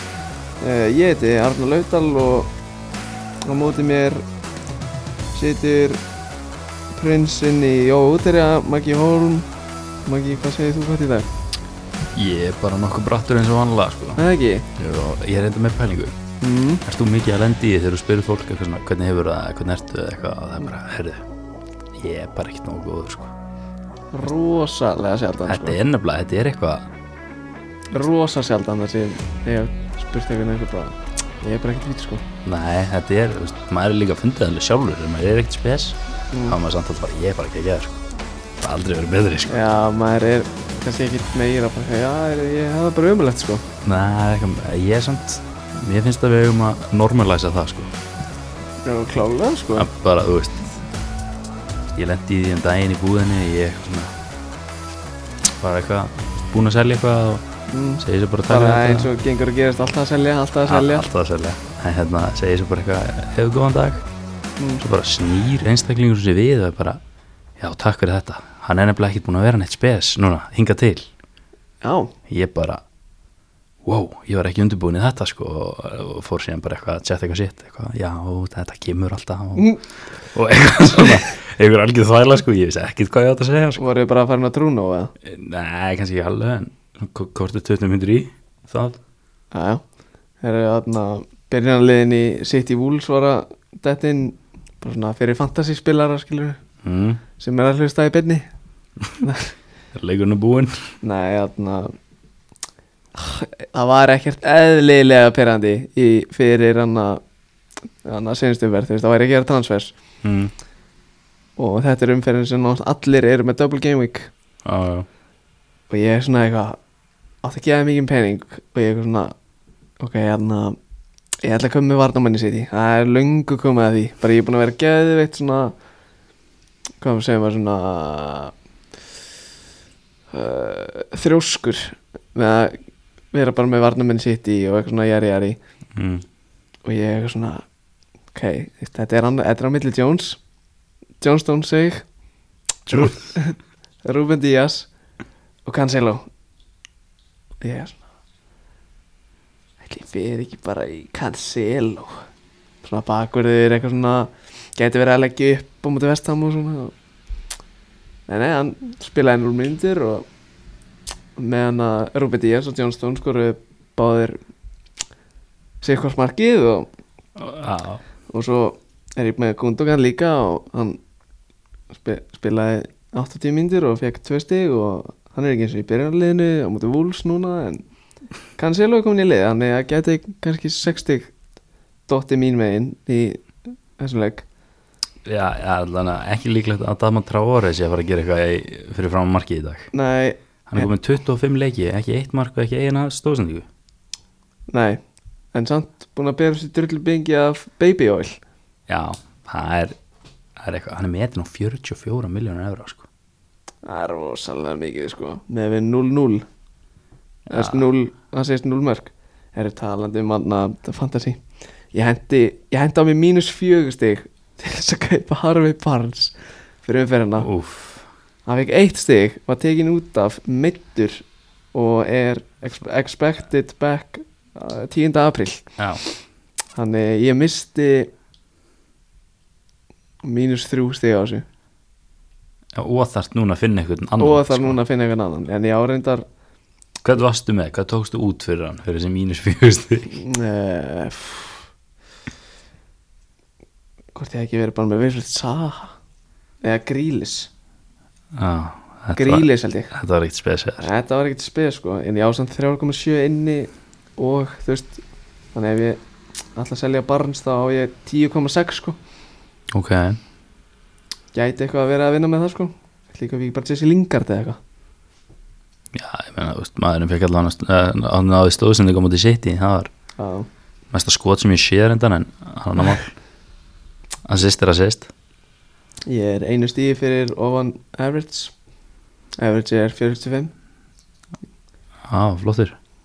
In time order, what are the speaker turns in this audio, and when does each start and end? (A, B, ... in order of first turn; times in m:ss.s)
0:00.6-0:02.5 A
0:03.4-0:04.2 A
0:05.3-0:06.0 A
0:07.0-0:09.5 A
0:10.0-0:11.3 A
0:12.1-0:14.2 B
0:14.2-0:14.6 A
0:14.8-0:16.2 B
0:16.4-0:16.8 A
0:16.8-0:21.2 B
0:21.9-0:23.3 B
0:24.1-0:25.8 A
0:25.4-0:26.9 B
0:27.9-0:32.2 A
0:32.4-0:38.0 B
0:36.3-0:36.6 A
0:38.6-0:39.6 B
0:39.5-0:43.6 A
0:43.8-0:47.9 B
0:48.8-0:49.9 A
0:49.7-0:50.8 B
0:51.9-0:54.1 B
0:55.6-0:57.4 B
0:57.7-1:01.1 A
0:58.0-0:59.1 B
1:00.6-1:04.0 B
1:04.8-1:07.0 B
1:07.6-1:11.1 B
1:11.8-1:12.1 A
1:12.3-1:12.8 B
1:13.8-1:23.8 B
1:23.8-1:25.1 A
1:25.2-1:29.0 B
1:29.5-1:29.8 A
1:30.4-1:36.6 A
1:36.8-1:37.2 B
1:37.4-1:38.5 A
1:39.2-1:39.5 A
1:39.9-1:40.9 B
1:41.0-1:41.9 A
1:43.1-1:47.2 A
1:48.0-1:49.9 A
1:50.2-1:50.5 B
1:51.6-1:54.3 A
1:54.6-1:55.1 B
1:55.9-1:56.8 A
1:57.4-1:59.3 A
2:00.0-2:00.8 A
2:01.4-2:05.7 A
2:07.0-2:08.5 A
2:10.3-2:12.8 A
2:13.3-2:15.6 A
2:15.9-2:16.2 B
2:16.8-2:17.6 A
2:18.3-2:20.4 A
2:21.2-2:22.0 A
2:22.8-2:24.9 A
2:25.6-2:26.2 A
2:27.6-2:28.0 A
2:29.8-2:32.2 A
2:32.8-2:36.9 A
2:38.3-2:40.2 A
2:41.4-2:44.4 A
2:45.8-2:46.9 A
2:47.4-2:48.0 B
2:48.3-2:51.0 A
2:51.9-2:57.8 A
2:58.6-3:01.3 A
3:02.1-3:03.4 A
3:04.0-3:04.4 A
3:05.2-3:09.9 B
3:09.9-3:10.9 A
3:10.7-3:13.7 B
3:14.7-3:15.0 A
3:15.5-3:18.4 A
3:18.9-3:20.0 B
3:20.6-3:23.1 B
3:23.8-3:26.4 A
3:27.5-3:27.9 B
3:27.5-3:31.4 A
3:31.9-3:37.5 A
3:37.4-3:38.1 B
3:38.4-3:45.7 A
3:46.7-3:48.1 A
3:50.2-3:51.4 A
3:52.7-3:54.8 B
3:54.2-3:56.2 A
3:57.0-4:00.1 B
4:00.1-4:01.6 A
4:04.1-4:05.9 A
4:06.6-4:07.5 A
4:08.3-4:10.9 B
4:09.1-4:09.9 A
4:10.8-4:15.0 A
4:15.5-4:16.0 A
4:16.6-4:19.0 A
4:19.7-4:20.2 B
4:21.3-4:24.6 A
4:25.9-4:29.9 B
4:30.2-4:30.5 A
4:30.9-4:33.1 B
4:34.2-4:35.1 B
4:36.1-4:38.5 A
4:39.4-4:40.5 A
4:42.1-4:42.8 B